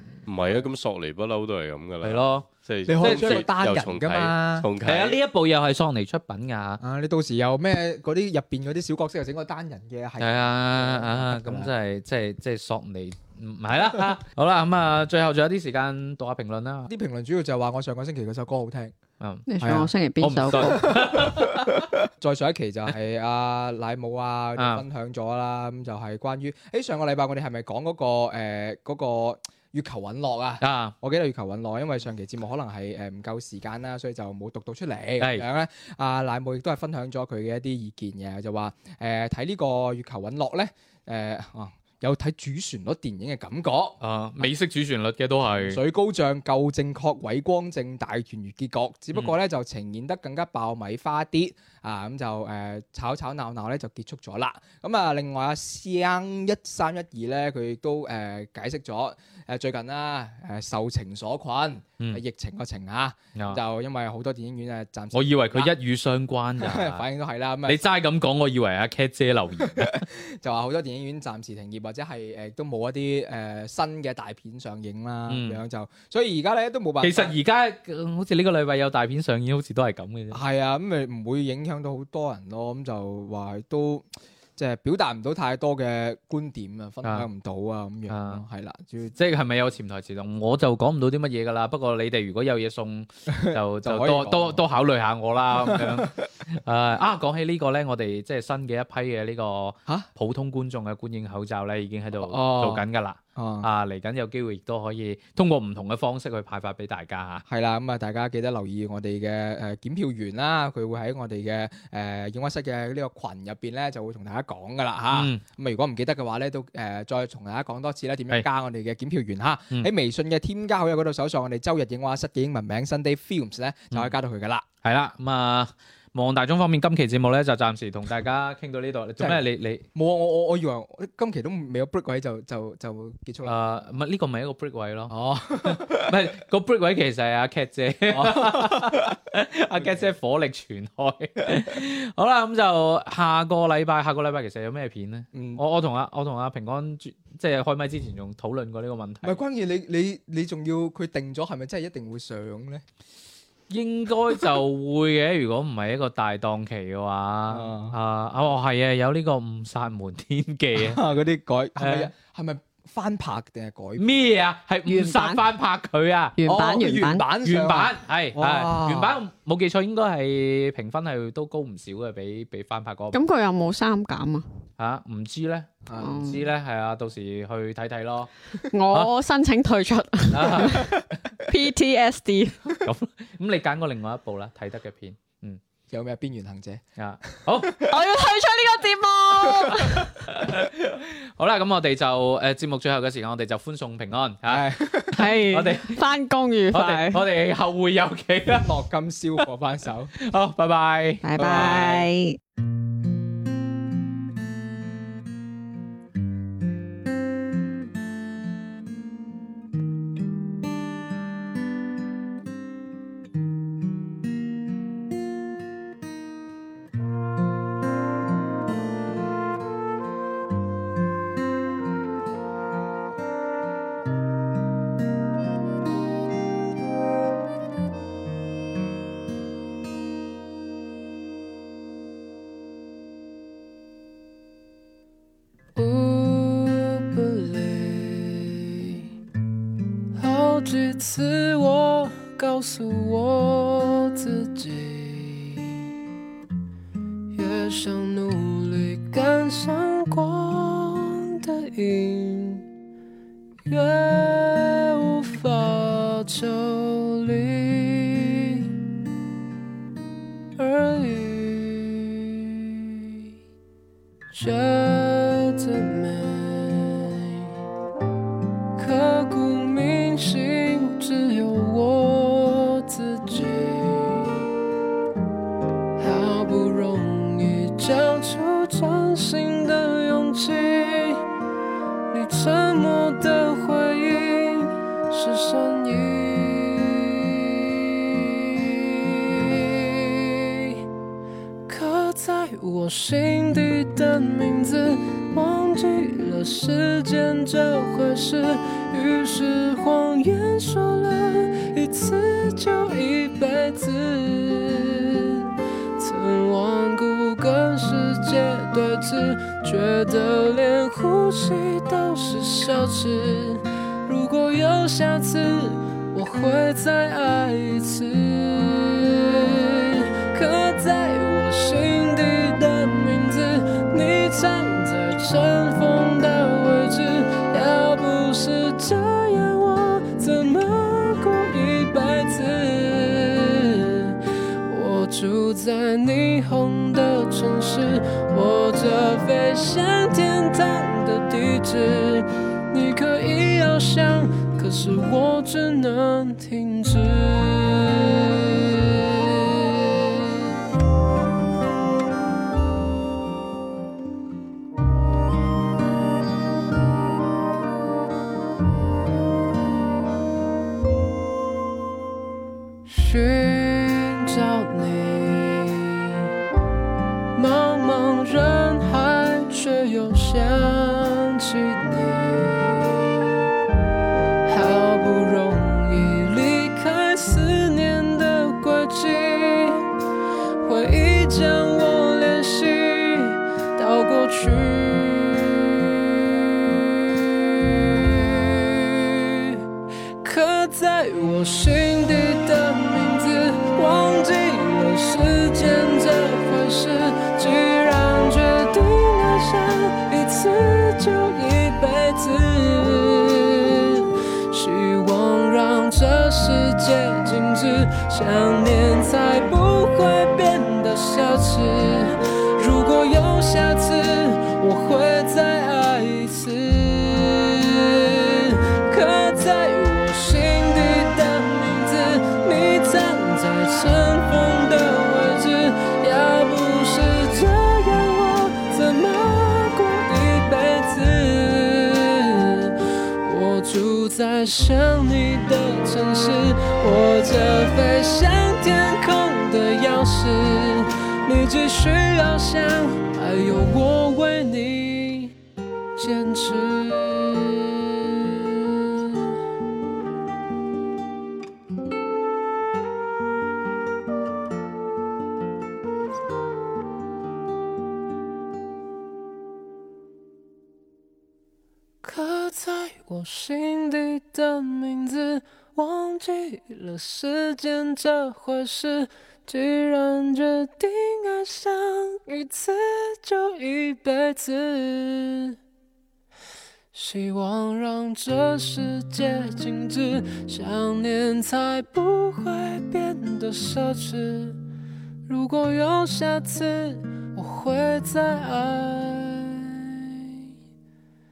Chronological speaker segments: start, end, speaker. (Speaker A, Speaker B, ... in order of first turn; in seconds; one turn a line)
Speaker A: 0.3-5.2
Speaker B: 2.0-2.5
Speaker C: 2.9-4.7
Speaker B: 3.0-3.5
Speaker B: 4.8-6.8
Speaker C: 6.8-11.7
Speaker B: 10.2-16.9
Speaker C: 16.9-18.9
Speaker B: 19.2-19.5
Speaker D: 19.5-21.3
Speaker C: 19.6-19.9
Speaker B: 20.2-21.9
Speaker C: 20.6-44.0
Speaker B: 24.6-24.8
Speaker B: 30.6-30.9
Speaker B: 35.2-35.5
Speaker B: 44.0-45.8
Speaker C: 45.5-65.8
Speaker B: 65.1-67.0
Speaker C: 66.6-67.8
Speaker B: 67.7-70.0
Speaker C: 69.7-77.4
Speaker B: 75.3-75.6
Speaker B: 77.0-80.4
Speaker C: 80.3-89.2
Speaker B: 87.0-87.3
Speaker B: 88.1-88.4
Speaker B: 89.2-107.5
Speaker C: 93.3-94.6
Speaker C: 95.5-96.2
Speaker C: 102.2-102.8
Speaker C: 103.4-103.7
Speaker C: 107.5-124.7
Speaker B: 115.1-115.4
Speaker B: 124.8-129.8
Speaker C: 129.9-133.6
Speaker B: 133.4-149.4
Speaker C: 135.1-136.1
Speaker C: 138.1-139.2
Speaker C: 139.7-140.0
Speaker C: 145.3-145.6
Speaker C: 149.2-152.8
Speaker B: 153.7-161.0
Speaker C: 157.5-157.9
Speaker C: 160.8-164.1
Speaker B: 161.8-162.1
Speaker B: 164.0-166.4
Speaker D: 164.9-165.4
Speaker D: 166.4-167.3
Speaker C: 166.5-169.2
Speaker B: 167.4-173.2
Speaker D: 173.1-174.4
Speaker B: 174.8-178.3
Speaker C: 175.9-176.3
Speaker D: 176.0-176.4
Speaker D: 178.7-182.7
Speaker B: 180.3-181.1
Speaker C: 180.8-181.0
Speaker B: 182.7-185.6
Speaker C: 185.9-186.8
Speaker B: 187.0-187.8
Speaker D: 187.8-190.1
Speaker B: 190.1-196.1
Speaker C: 194.5-195.2
Speaker D: 195.2-197.2
Speaker B: 196.7-198.7
Speaker C: 198.6-200.1
Speaker B: 200.2-201.9
Speaker D: 201.2-202.4
Speaker C: 201.4-202.1
Speaker E: 235.8-239.1
Speaker E: 240.2-245.8
Speaker E: 247.3-252.6
Speaker E: 253.7-258.7
Speaker E: 260.6-262.9
Speaker E: 264.3-267.4
Speaker E: 268.8-274.4
Speaker E: 276.0-281.2
Speaker E: 282.1-290.8
Speaker E: 291.7-350.4
Speaker E: 362.9-366.2
Speaker E: 367.3-373.3
Speaker E: 374.5-379.8
Speaker E: 380.6-389.6
Speaker E: 390.2-445.3
Speaker E: 446.0-449.2
Speaker E: 462.0-475.6
Speaker E: 476.9-484.6
Speaker E: 485.3-490.3